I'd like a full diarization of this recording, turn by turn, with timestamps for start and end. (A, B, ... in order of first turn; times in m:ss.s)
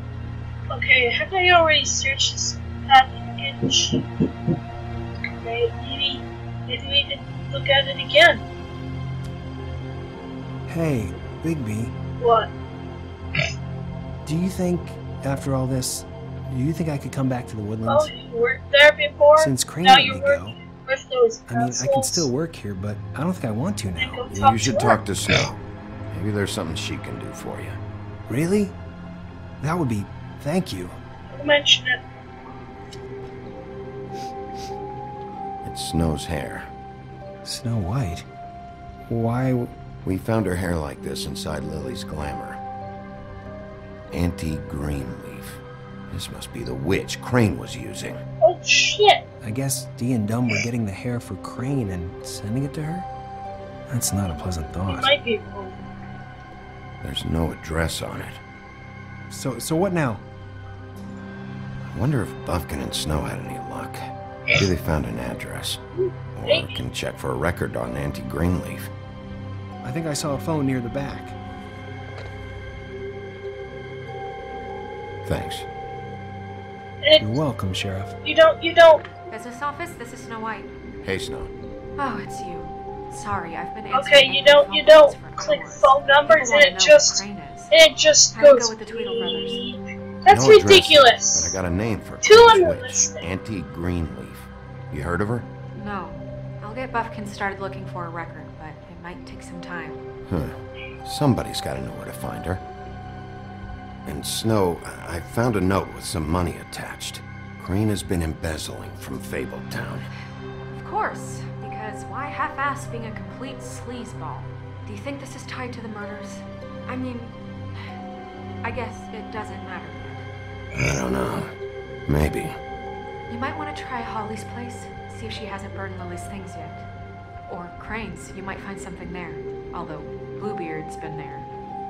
0:00.7-0:04.0 A
0:05.4-0:08.4 A
0:10.7-0:11.9 B
0:12.2-0:12.5 A
0:14.2-0:18.1 B
0:17.8-0:22.3 A
0:19.4-0:20.6 B
0:21.5-0:24.2 B
0:23.9-0:25.0 A
0:24.3-0:25.6 C
0:26.1-0:27.8 C
0:28.3-0:28.7 B
0:29.6-0:30.9 B
0:31.3-0:32.0 A
0:35.6-0:36.7 C
0:37.4-0:38.2 B
0:39.1-0:39.7 B
0:40.0-0:42.6 C
0:44.1-0:48.2 C
0:48.4-0:49.2 A
0:49.4-0:53.1 B
0:53.9-0:55.1 B
0:54.8-0:55.8 A
0:57.0-0:58.4 C
0:59.3-1:00.2 B
1:01.8-1:05.8 C
1:06.0-1:06.8 A
1:06.4-1:08.9 C
1:09.8-1:11.3 B
1:15.2-1:15.7 C
1:17.0-1:17.4 A
1:17.2-1:18.2 B
1:18.2-1:19.0 A
1:19.3-1:20.7 D
1:21.0-1:21.5 C
1:22.0-1:27.7 D
1:23.9-1:31.5 A
1:28.3-1:29.6 D
1:30.3-1:35.5 C
1:32.2-1:33.2 A
1:35.7-1:40.0 D
1:40.3-1:42.6 C
1:44.0-1:50.1 C
1:50.7-1:57.4 D
1:58.6-2:00.2 D
2:00.7-2:01.5 C
2:02.1-2:02.6 C
2:03.3-2:06.8 D
2:07.5-2:11.5 D